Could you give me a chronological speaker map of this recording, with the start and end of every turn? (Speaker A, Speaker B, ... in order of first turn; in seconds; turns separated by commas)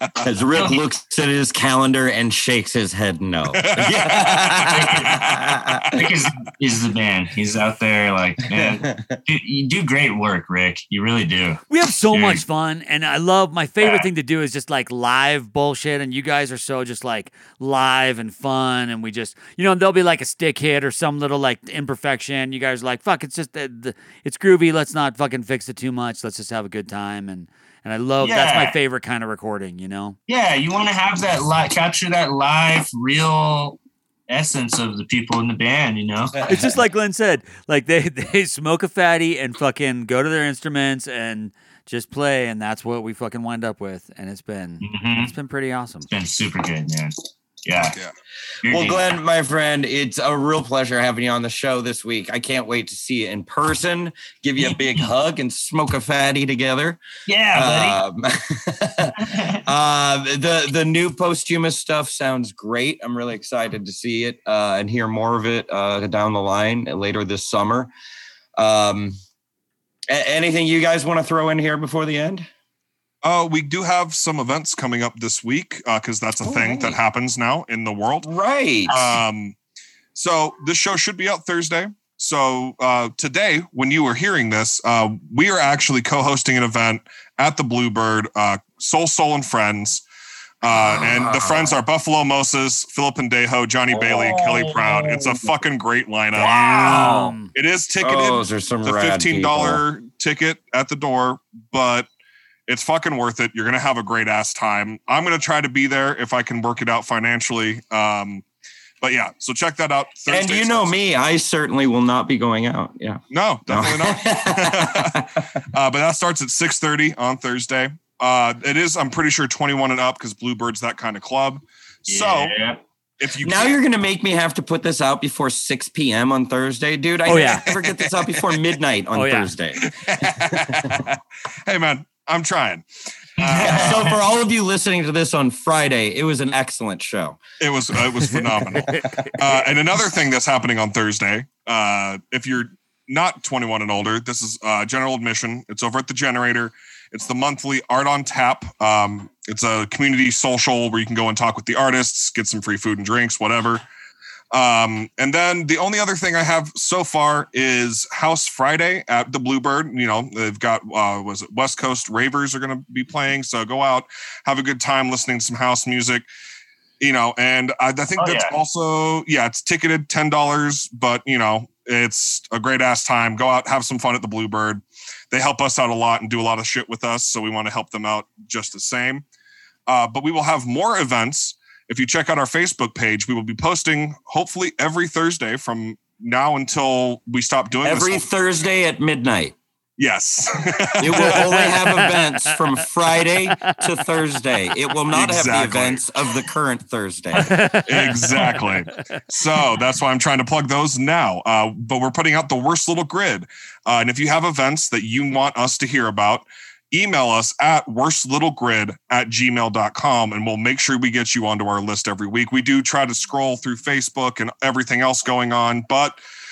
Speaker A: 0.2-6.1, Speaker B: 0.6-0.8, Speaker C: 3.6-6.1, Speaker B: 4.7-5.2, Speaker B: 6.0-12.4, Speaker A: 8.5-9.2, Speaker D: 11.7-30.2, Speaker B: 13.8-14.1, Speaker B: 28.2-28.8, Speaker B: 30.3-36.4, Speaker A: 36.3-36.8, Speaker D: 36.5-46.1, Speaker B: 44.8-45.3, Speaker B: 46.1-47.1, Speaker B: 47.7-48.0, Speaker C: 47.8-48.1, Speaker B: 48.6-49.0, Speaker A: 48.7-57.0, Speaker B: 54.6-55.1, Speaker B: 57.3-58.0, Speaker A: 57.5-67.9, Speaker B: 59.2-59.6, Speaker A: 68.6-69.2, Speaker A: 70.1-72.5, Speaker C: 73.2-78.3, Speaker A: 76.4-77.0, Speaker A: 78.2-79.1, Speaker C: 78.9-79.5, Speaker C: 80.1-90.0, Speaker C: 90.6-102.1, Speaker A: 90.7-91.8, Speaker A: 93.9-95.3, Speaker A: 96.4-97.3, Speaker D: 96.4-97.5, Speaker A: 98.0-99.8, Speaker C: 102.7-108.4, Speaker C: 109.0-110.9, Speaker A: 110.3-115.5, Speaker C: 113.3-115.2, Speaker C: 115.7-122.5, Speaker B: 122.1-122.8, Speaker C: 123.2-123.8, Speaker A: 123.4-131.1, Speaker D: 127.3-127.7, Speaker D: 129.1-129.5, Speaker C: 129.8-131.1, Speaker C: 131.7-132.9, Speaker B: 133.4-134.2, Speaker C: 133.4-134.0, Speaker A: 133.6-137.4, Speaker C: 137.6-153.8, Speaker D: 138.8-139.2, Speaker C: 154.5-166.3, Speaker C: 167.0-179.2, Speaker B: 168.2-168.5, Speaker C: 179.9-188.2, Speaker A: 187.8-189.6, Speaker C: 190.0-191.7, Speaker A: 191.0-197.5, Speaker D: 191.3-192.8, Speaker D: 193.5-193.8, Speaker C: 195.1-196.1, Speaker D: 197.3-198.9, Speaker C: 197.9-216.2